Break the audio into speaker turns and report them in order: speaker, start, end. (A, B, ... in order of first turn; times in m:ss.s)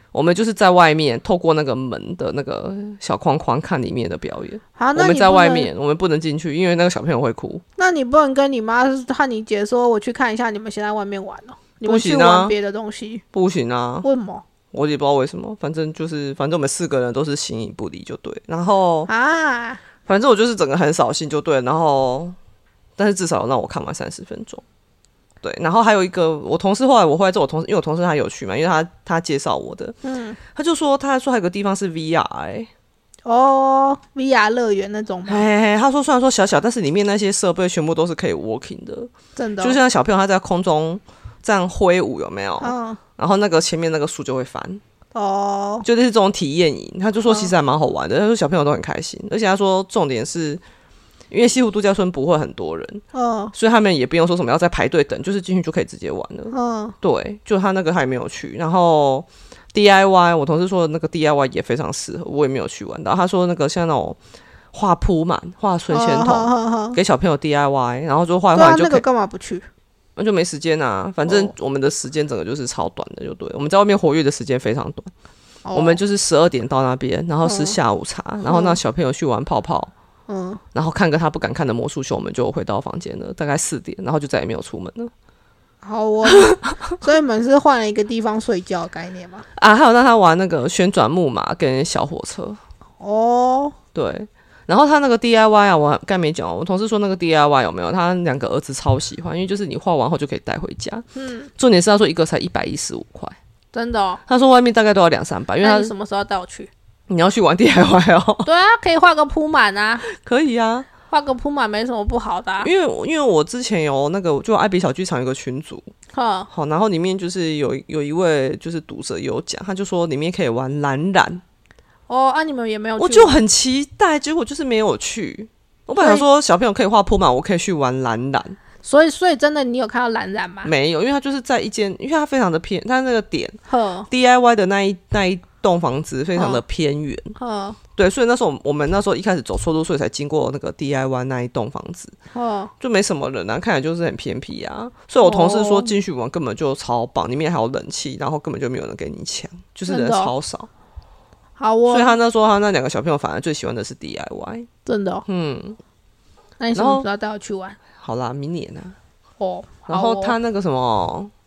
0:00.1-0:07.6 A
0:04.8-0:05.7 B
0:07.8-0:13.2 B
0:11.8-0:12.5 A
0:13.3-0:14.0 A
0:14.0-0:14.4 B
0:14.7-0:19.1 A
0:19.1-0:19.8 B
0:20.0-0:22.4 A
0:23.0-0:24.6 A
0:25.4-0:32.7 A
0:30.0-0:30.4 B
0:33.2-0:35.4 B
0:35.3-0:44.8 A
0:39.4-0:39.8 B
0:42.6-0:43.0 B
0:45.1-0:45.8 B
0:45.8-0:50.6 A
0:47.3-0:47.5 B
0:51.3-1:04.2 A
0:53.1-0:53.5 B
0:56.5-0:56.9 B
1:04.7-1:09.0 A
1:05.9-1:07.0 B
1:08.5-1:09.7 B
1:10.2-1:15.1 A
1:11.2-1:11.5 B
1:15.6-1:16.0 B
1:15.7-1:19.9 A
1:17.4-1:17.8 B
1:18.4-1:18.8 B
1:20.3-1:20.6 B
1:20.7-1:25.1 A
1:25.8-1:29.4 B
1:26.3-1:26.5 A
1:29.6-1:32.6 A
1:33.0-1:33.8 B
1:33.9-1:41.0 A
1:41.2-1:41.5 B
1:41.6-1:43.4 A
1:43.7-1:44.2 B
1:44.3-1:45.9 A
1:45.6-1:46.7 B
1:47.1-1:48.5 A
1:48.4-1:50.0 B
1:50.0-1:50.9 A
1:51.1-1:52.7 B
1:52.6-1:55.9 A
1:56.1-1:56.5 B
1:56.5-2:01.4 A
2:02.1-2:03.4 B
2:03.0-2:08.6 A
2:06.0-2:06.2 B
2:08.8-2:10.7 B
2:10.6-2:17.3 A
2:13.7-2:14.1 B
2:16.3-2:16.6 B
2:17.4-2:17.8 B
2:18.0-2:22.1 A
2:22.3-2:22.7 B
2:22.8-2:30.7 A
2:25.2-2:25.9 B
2:29.9-2:30.3 B
2:31.6-2:32.1 B
2:31.9-2:34.7 A
2:34.8-2:35.2 B
2:35.2-2:35.8 A
2:36.6-2:37.8 B
2:36.7-2:37.0 A
2:37.9-2:39.0 A
2:39.4-2:40.4 B
2:39.9-2:41.3 A